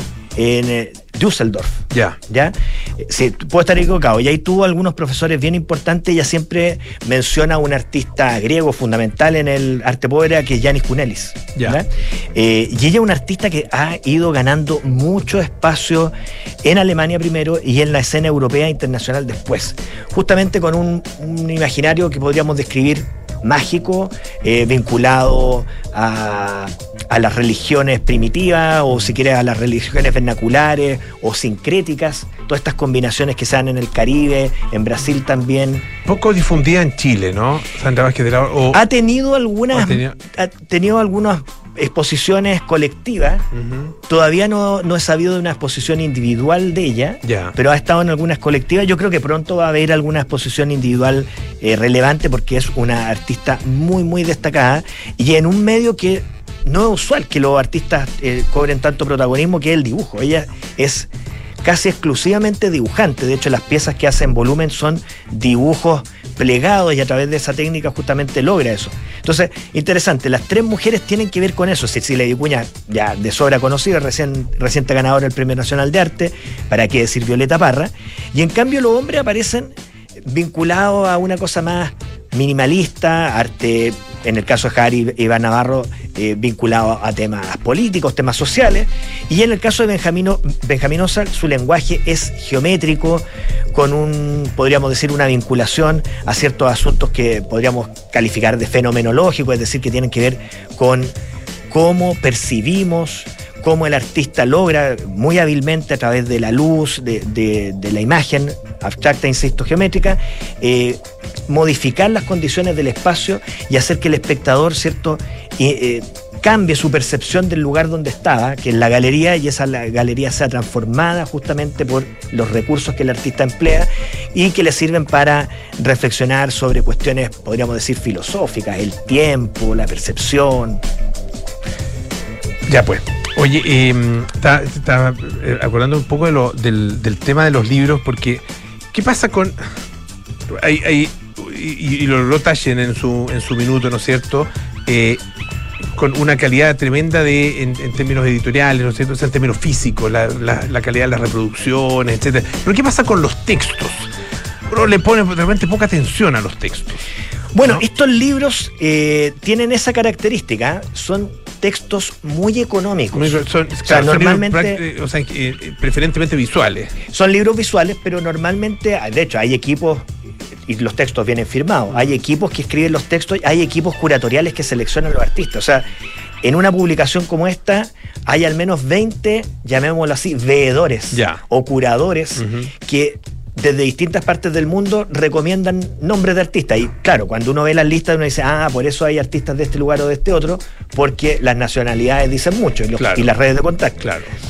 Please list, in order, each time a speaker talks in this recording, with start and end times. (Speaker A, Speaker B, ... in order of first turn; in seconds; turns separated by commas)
Speaker A: 0.4-35.9, Speaker B: 1.9-2.2, Speaker B: 36.1-38.8, Speaker A: 38.7-43.5, Speaker B: 39.7-40.1, Speaker B: 43.5-43.9, Speaker A: 44.1-61.1, Speaker B: 47.2-47.5, Speaker A: 61.6-79.7, Speaker A: 80.2-101.1, Speaker A: 101.7-130.8, Speaker B: 132.7-139.6, Speaker B: 140.5-145.2, Speaker B: 145.9-154.1, Speaker B: 154.7-157.0, Speaker A: 157.5-164.8, Speaker B: 163.1-166.9, Speaker A: 167.1-170.1, Speaker A: 170.7-175.9, Speaker B: 171.9-172.2, Speaker A: 176.4-194.1, Speaker B: 181.1-181.4, Speaker B: 182.4-182.7, Speaker B: 193.0-193.3, Speaker B: 194.0-194.3